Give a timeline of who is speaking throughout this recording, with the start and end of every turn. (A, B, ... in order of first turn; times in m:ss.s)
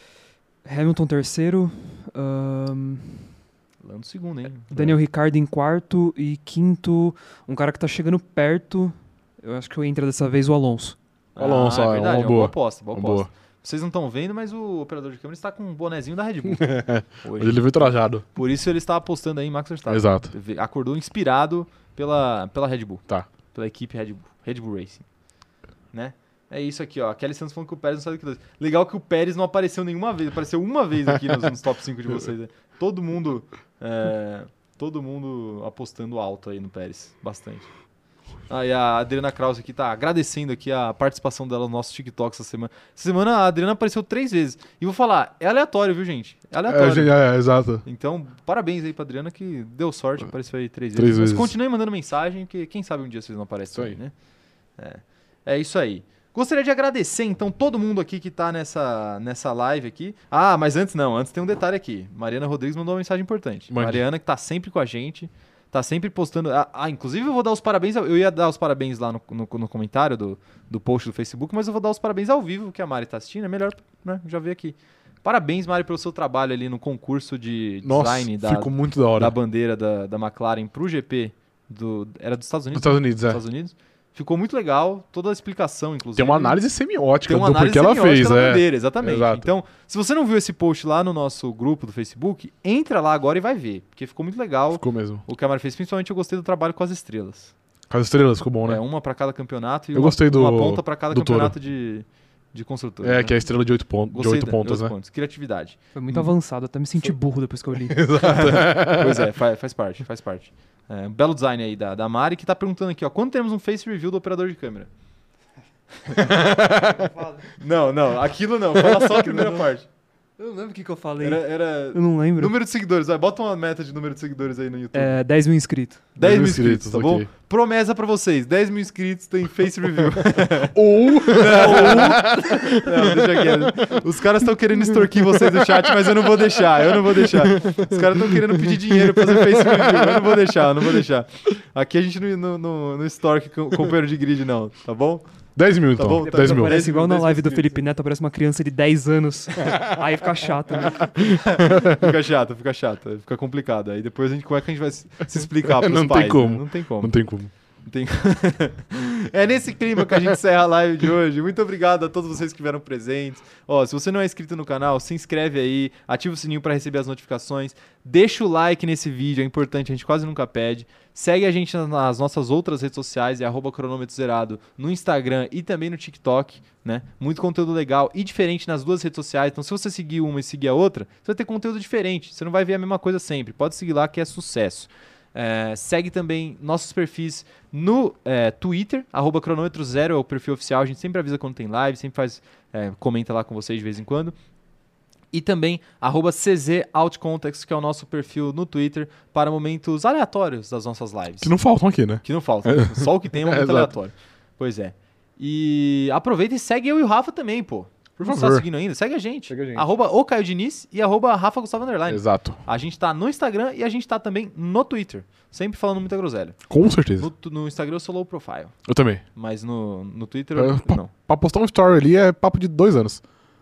0:00.6-0:03.3 A
0:03.8-0:04.7 B
0:04.7-0:11.0 A
0:11.3-0:25.0 B
0:11.4-0:13.3 C
0:16.4-0:18.2 C
0:19.9-0:20.3 C
0:25.9-0:37.7 B
0:38.5-0:47.1 B
0:46.7-0:47.8 C
0:47.8-0:54.1 B
0:51.0-0:51.5 C
0:54.8-1:26.6 B
1:03.7-1:04.0 C
1:17.8-1:19.3 C
1:22.7-1:23.4 C
1:26.1-1:29.5 C
1:27.3-1:37.5 B
1:34.7-1:35.2 C
1:37.9-1:38.8 C
1:38.6-1:43.4 B
1:39.9-1:41.5 C
1:43.0-1:44.9 C
1:44.1-1:45.8 B
1:45.9-1:48.5 A
1:47.9-1:49.3 C
1:48.2-1:54.9 B
1:56.2-1:57.1 C
1:57.0-1:57.4 A
1:57.6-1:59.9 B
1:59.1-1:59.6 A
2:00.4-2:02.5 A
2:01.2-2:05.1 B
2:04.9-2:06.0 A
2:06.2-2:25.2 B
2:06.2-2:07.3 C
2:10.7-2:14.0 C
2:11.4-2:12.4 A
2:15.2-2:21.0 C
2:25.6-2:26.8 C
2:25.9-2:27.8 B
2:26.2-2:31.2 A
2:29.6-2:30.1 C
2:30.8-2:32.1 C
2:31.2-2:37.1 B
2:35.6-2:37.5 C
2:37.8-3:14.3 B
3:15.3-3:21.5 B
3:21.4-3:23.9 C
3:22.2-3:36.6 B
3:28.2-3:28.6 C
3:29.5-3:29.8 C
3:32.1-3:32.6 C
3:36.7-3:37.3 C
3:37.2-3:38.8 B
3:38.8-3:39.2 C
3:39.3-3:41.1 B
3:40.5-3:43.2 C